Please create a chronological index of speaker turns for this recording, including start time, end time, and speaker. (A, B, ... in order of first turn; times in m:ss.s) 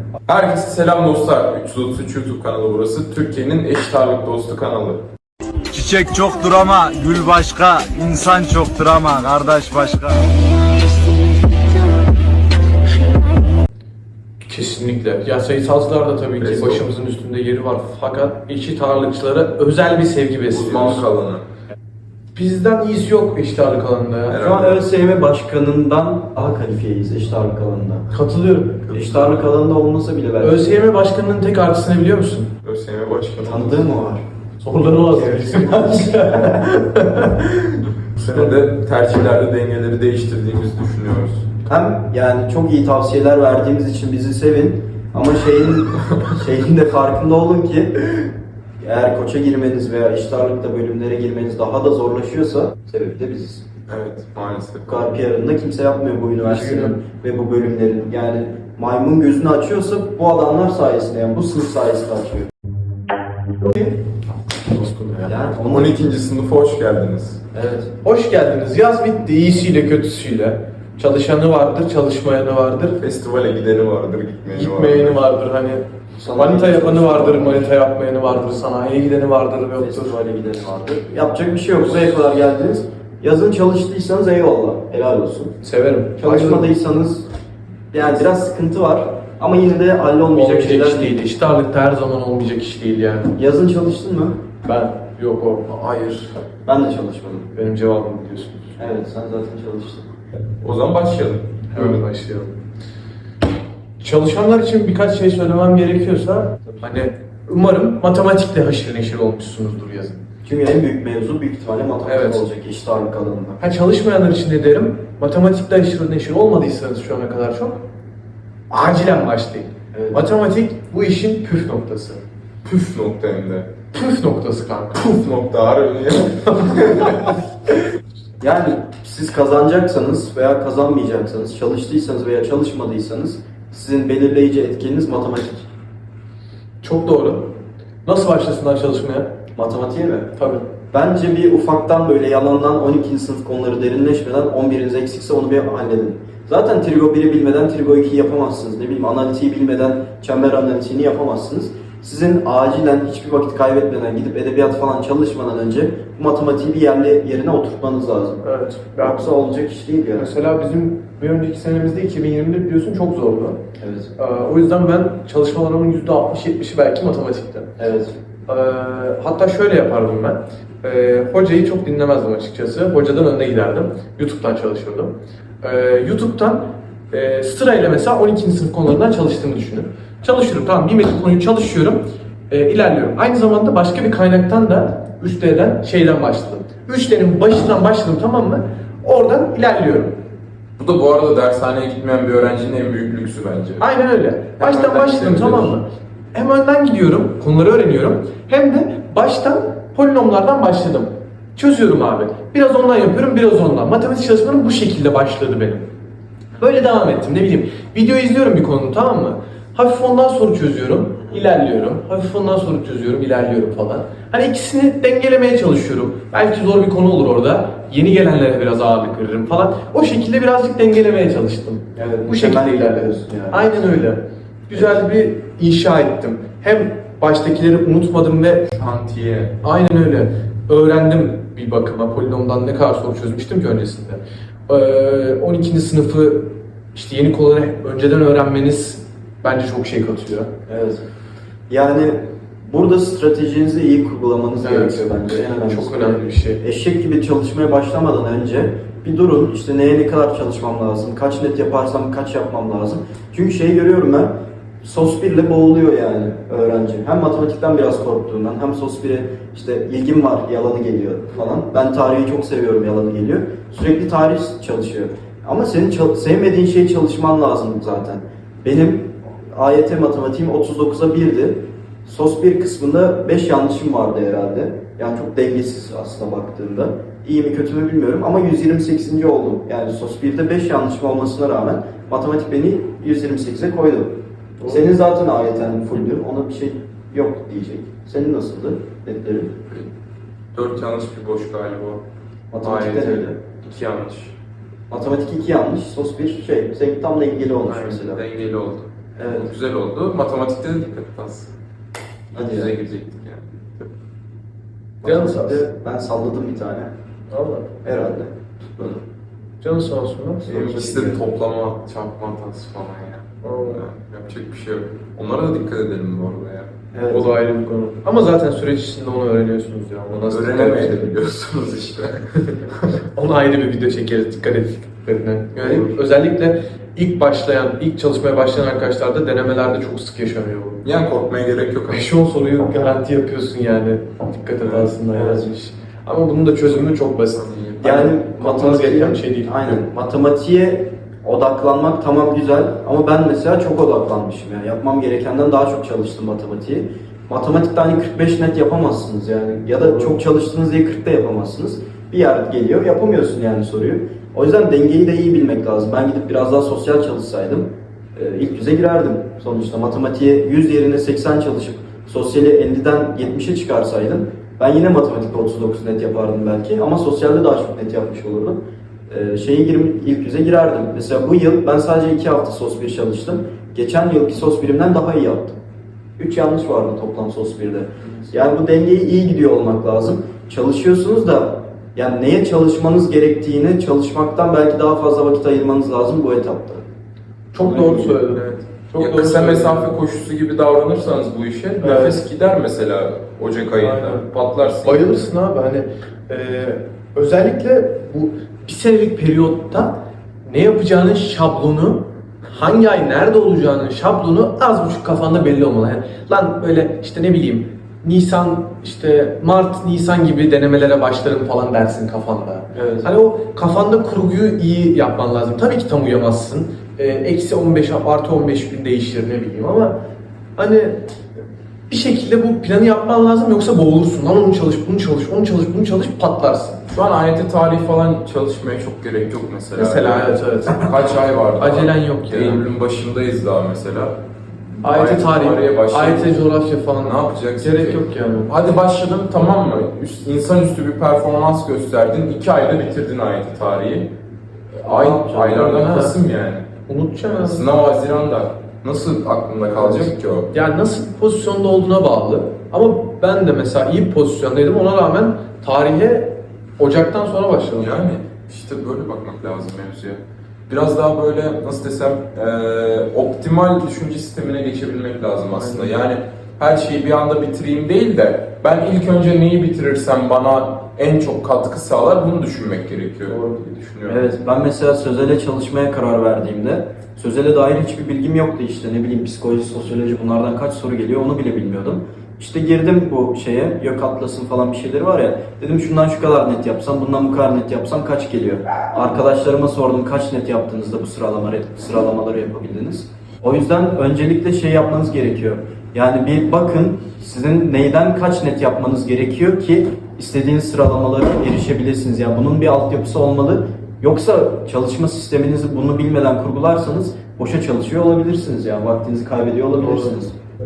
0:00.3-0:05.0 A
0:05.7-0:10.3 B
0:14.4-0:21.0 C
0:16.4-0:16.8 A
0:20.5-0:21.4 A
0:22.3-0:24.4 C
0:24.3-0:24.9 A
0:24.4-0:28.0 D
0:28.1-0:28.9 C
0:28.9-0:30.8 D
0:28.9-0:29.3 A
0:30.4-0:32.5 C
0:32.6-0:33.8 A
0:33.4-0:34.2 D
0:34.6-0:37.5 C
0:35.1-0:36.6 D
0:38.2-0:41.5 A
0:41.6-0:48.3 D
0:48.8-0:53.6 D
0:53.9-0:55.0 A
0:54.8-1:02.5 D
0:56.4-0:57.0 C
1:04.7-1:05.4 C
1:05.2-1:06.1 D
1:05.6-1:07.4 A
1:07.5-1:07.9 D
1:08.0-1:13.0 C
1:13.0-1:15.2 A
1:14.5-1:20.1 C
1:16.2-1:17.7 D
1:19.8-1:25.5 D
1:25.6-1:26.7 C
1:26.2-1:27.2 D
1:27.9-1:31.2 D
1:30.3-1:33.3 C
1:33.3-1:34.4 D
1:34.6-1:36.3 C
1:36.6-1:37.5 D
1:37.5-1:38.8 C
1:38.8-1:40.0 D
1:40.5-1:42.0 A
1:41.7-1:42.5 C
1:44.0-1:50.2 C
1:50.4-1:53.6 D
1:52.0-1:52.4 C
1:53.6-1:57.8 C
1:58.7-2:02.2 C
1:59.9-2:00.3 D
2:02.6-2:03.7 A
2:03.9-2:05.0 C
2:05.0-2:07.4 A
2:08.4-2:15.7 D
2:16.8-2:17.4 C
2:18.0-2:19.3 C
2:19.6-2:20.3 D
2:20.4-2:20.6 C
2:20.9-2:38.4 D
2:38.4-2:39.3 C
2:39.0-2:40.3 D
2:40.2-2:43.6 C
2:43.8-2:44.1 D
2:44.2-2:47.7 C
2:47.8-2:48.1 D
2:48.5-3:10.1 C
3:10.8-3:13.8 A
3:13.8-3:25.8 C
3:14.6-3:15.7 A
3:26.6-3:48.7 C
3:41.9-3:43.8 D
3:48.7-3:49.6 A
3:49.6-4:00.5 C
4:00.7-4:01.0 D
4:01.7-4:49.5 D
4:04.6-4:06.6 C
4:44.6-4:44.9 C
4:50.5-4:52.0 A
4:52.5-4:53.4 D
4:52.6-4:54.3 A
4:54.9-4:58.2 D
4:57.6-4:58.0 C
4:58.0-5:01.5 A
4:59.2-4:59.5 D
5:02.3-5:02.7 D
5:02.3-5:03.9 A
5:05.0-5:06.9 D
5:05.0-5:05.6 C
5:07.3-5:07.7 C
5:07.8-5:09.0 D
5:09.6-5:10.5 C
5:10.4-5:16.7 A
5:10.5-5:11.2 D
5:13.4-5:13.8 C
5:16.9-5:17.3 D
5:17.1-5:21.1 C
5:20.3-5:22.9 A
5:23.0-5:30.8 C
5:25.5-5:26.0 A
5:30.8-5:32.1 A
5:31.9-5:39.8 C
5:34.6-5:35.0 A
5:35.1-5:35.5 D
5:37.3-5:38.0 A
5:37.8-6:08.6 D
6:09.1-6:15.6 D
6:16.2-6:26.8 D
6:27.5-6:30.0 C
6:27.6-6:28.2 D
6:29.0-6:35.1 A
6:31.8-6:32.2 C
6:33.7-6:34.2 C
6:34.8-6:59.9 C
6:52.7-6:53.1 D
7:00.6-7:01.0 C
7:01.9-7:06.8 C
7:06.9-7:14.2 A
7:09.8-7:10.9 C
7:11.6-7:12.6 C
7:14.8-7:16.3 A
7:14.8-7:18.5 C
7:16.9-7:24.1 A
7:24.8-7:26.6 A
7:24.8-7:25.8 D
7:25.5-7:26.1 C
7:26.9-7:27.6 C
7:27.3-7:30.5 A
7:30.5-7:37.9 C
7:37.8-7:54.2 A
7:45.5-7:45.9 C
7:53.3-7:53.7 C
7:54.0-8:30.3 D
8:29.8-8:30.2 C